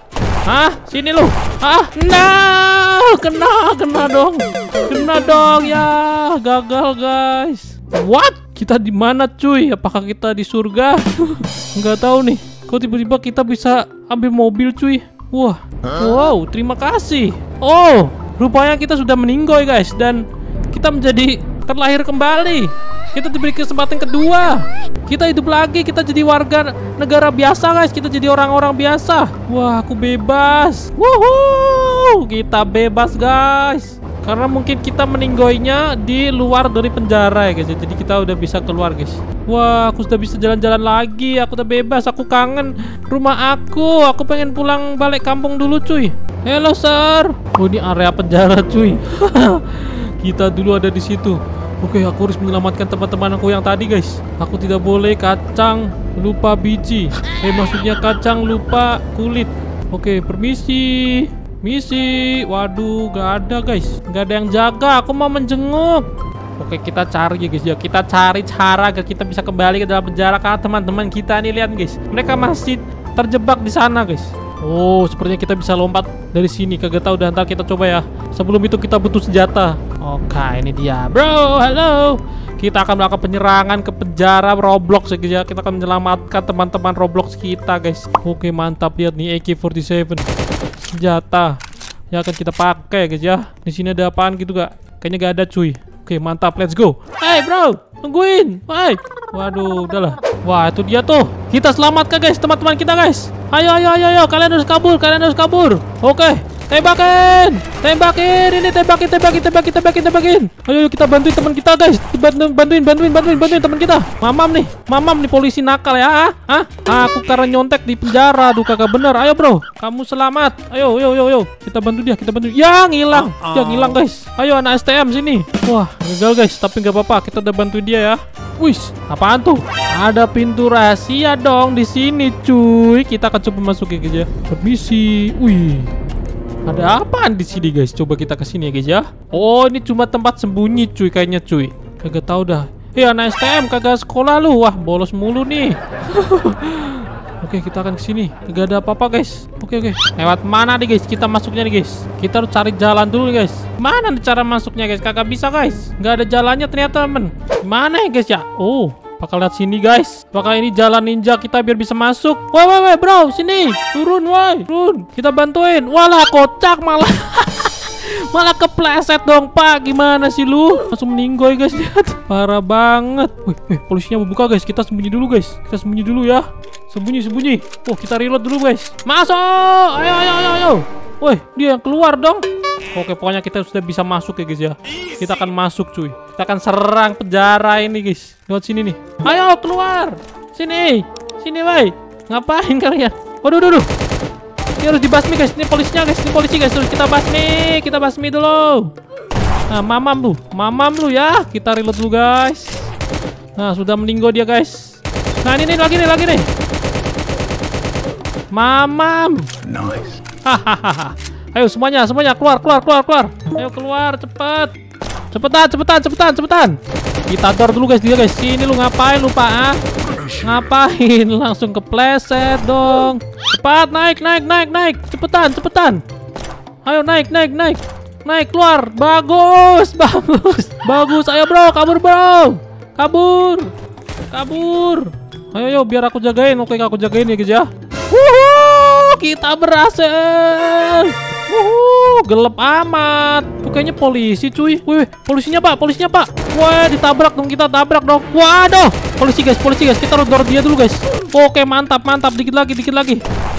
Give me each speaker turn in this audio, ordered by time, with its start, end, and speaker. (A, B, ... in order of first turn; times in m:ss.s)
0:00.5-1:30.3 A
1:30.8-1:31.6 A
1:32.1-2:15.9 A
2:16.6-3:13.9 A
3:14.8-3:18.9 A
3:19.7-3:22.9 A
3:23.6-3:26.5 A
3:28.5-3:34.7 A
3:35.3-3:39.8 A
3:40.4-3:46.0 A
3:46.8-3:53.7 A
3:54.3-4:13.2 A